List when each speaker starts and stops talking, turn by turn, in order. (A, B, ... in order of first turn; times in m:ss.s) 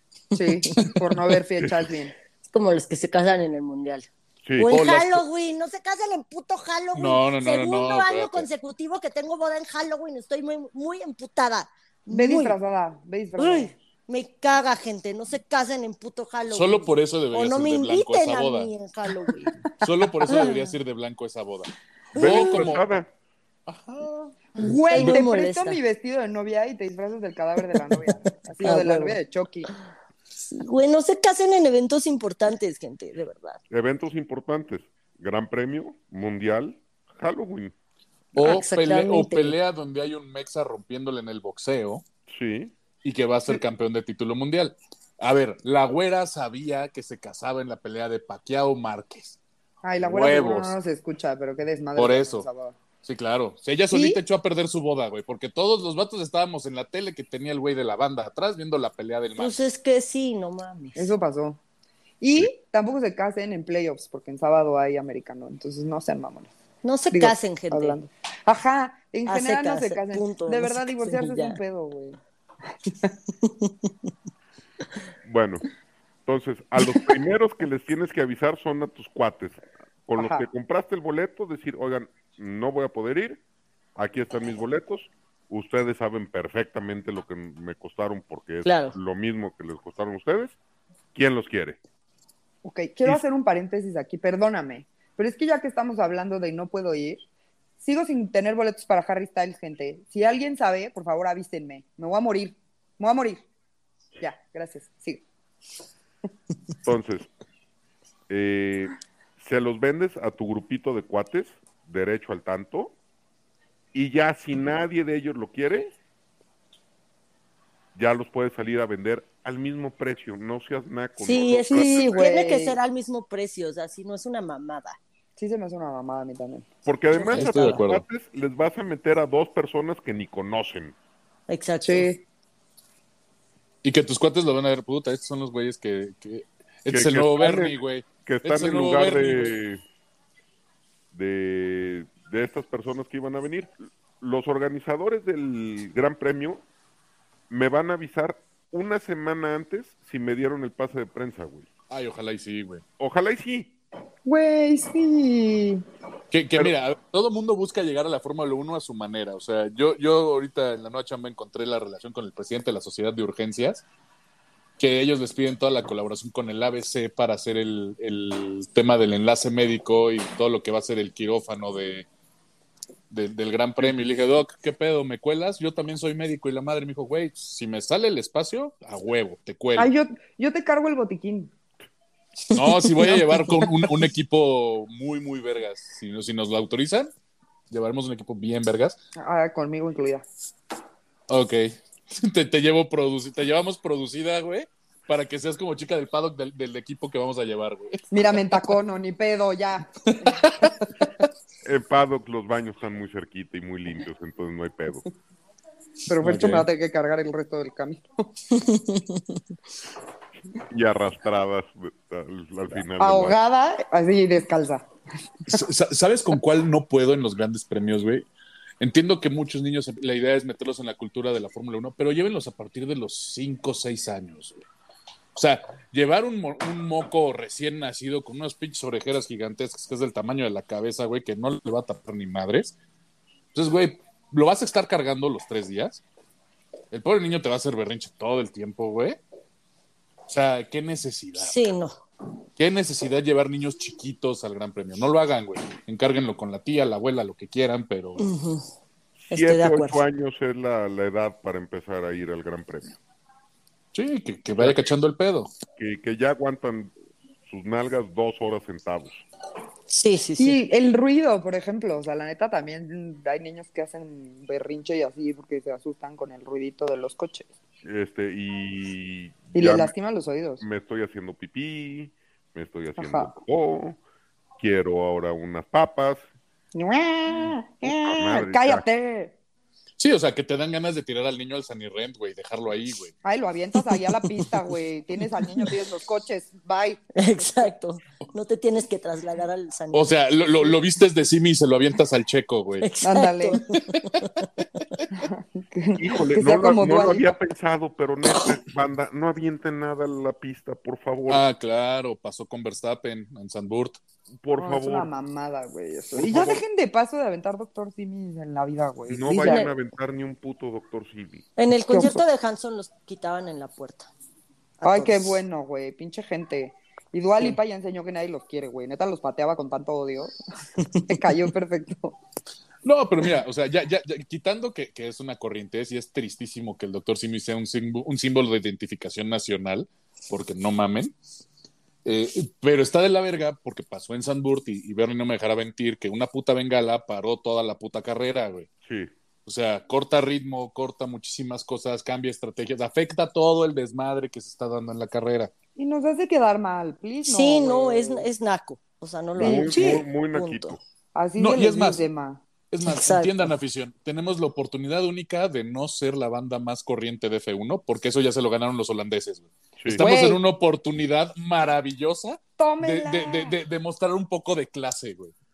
0:00.3-0:02.1 A
0:02.5-0:12.6 B
0:04.4-0:04.7 C
0:04.7-0:05.2 D
0:06.9-0:08.5 D
0:12.1-0:13.7 A
0:13.4-0:19.6 B
0:16.5-0:18.7 D
0:19.8-0:22.9 D
0:20.3-0:20.7 B
0:22.1-0:23.1 C
0:22.2-0:22.8 B
0:23.7-0:25.2 D
0:24.6-0:29.7 A
0:24.6-0:25.8 B
0:28.6-0:29.2 B
0:30.5-0:33.6 B
0:33.7-0:37.7 C
0:38.3-0:42.0 D
0:38.4-0:39.6 B
0:42.3-0:42.7 C
0:43.0-0:49.4 D
0:49.8-0:52.7 A
0:50.0-0:50.8 D
0:52.0-0:52.5 D
0:53.0-0:59.6 D
0:53.9-0:54.2 A
0:59.4-1:01.1 B
1:01.0-1:01.6 A
1:02.2-1:06.5 A
1:06.8-1:08.0 B
1:07.1-1:12.2 A
1:09.2-1:11.6 B
1:13.4-1:13.9 B
1:15.2-1:15.6 C
1:16.2-1:23.4 C
1:20.2-1:20.5 A
1:24.0-1:30.6 C
1:28.6-1:29.0 B
1:31.1-1:31.8 C
1:32.6-1:37.2 A
1:37.8-1:43.4 A
1:44.2-1:45.2 A
1:46.8-1:47.3 C
1:48.3-1:52.9 C
1:53.9-1:55.9 C
1:57.9-2:02.2 C
2:01.2-2:05.0 B
2:01.7-2:02.8 A
2:05.4-2:06.7 A
2:06.8-2:11.0 C
2:07.2-2:07.8 B
2:07.2-2:08.0 D
2:11.5-2:12.1 B
2:11.8-2:12.2 A
2:13.8-2:19.6 D
2:16.9-2:19.8 C
2:21.1-2:26.6 C
2:27.5-2:31.7 C
2:31.9-2:32.8 D
2:33.0-2:33.7 C
2:34.2-2:35.8 A
2:36.3-2:43.8 D
2:44.8-2:52.1 D
2:53.1-2:59.9 D
2:59.8-3:01.5 A
3:02.5-3:07.1 D
3:03.0-3:03.6 A
3:07.7-3:09.0 D
3:09.2-3:10.2 A
3:11.3-3:18.1 D
3:18.1-3:20.7 A
3:21.6-3:25.0 C
3:26.1-3:28.0 A
3:26.2-3:26.6 D
3:28.5-3:29.4 B
3:30.7-3:33.4 C
3:33.0-3:34.9 A
3:35.5-3:38.3 D
3:38.8-3:44.6 D
3:45.3-3:52.7 D
3:53.5-3:56.0 D
3:56.9-3:59.2 D
4:00.3-4:01.6 D
4:01.4-4:02.0 B
4:02.6-4:08.2 D
4:08.2-4:08.6 B
4:09.2-4:13.0 C
4:09.3-4:10.0 B
4:13.9-4:15.5 D
4:14.6-4:14.9 C
4:15.8-4:16.9 C
4:17.4-4:19.2 C
4:19.9-4:20.6 B
4:20.4-4:27.5 A
4:27.8-4:29.9 C
4:29.5-4:30.6 A
4:30.6-4:34.0 C
4:33.0-4:33.3 A
4:34.6-4:36.3 C
4:36.7-4:39.4 A
4:37.8-4:38.8 C
4:40.0-4:43.1 D
4:43.2-4:47.7 A
4:47.2-4:50.7 B
4:49.9-4:52.9 D
4:52.8-4:54.8 B
4:53.0-4:53.6 A
4:55.1-4:57.3 A
4:56.0-5:01.4 C
5:01.3-5:04.0 D
5:04.4-5:05.1 C
5:04.6-5:09.7 A
5:06.1-5:06.6 C
5:09.1-5:11.4 C
5:09.4-5:09.7 B
5:11.6-5:14.1 B
5:11.9-5:12.2 A
5:14.8-5:15.4 B
5:14.8-5:20.3 A
5:20.9-5:22.2 A
5:22.8-5:31.1 D
5:32.0-5:38.7 D
5:38.8-5:39.1 C
5:39.4-5:45.5 D
5:45.8-5:48.3 A
5:47.2-5:50.8 B
5:49.4-5:50.0 A
5:49.4-5:50.8 C
5:51.1-5:52.4 A
5:51.4-5:52.0 D
5:52.7-6:05.3 D
5:52.9-5:53.4 B
5:59.8-6:00.0 C
6:00.0-6:00.4 A
6:02.6-6:03.6 A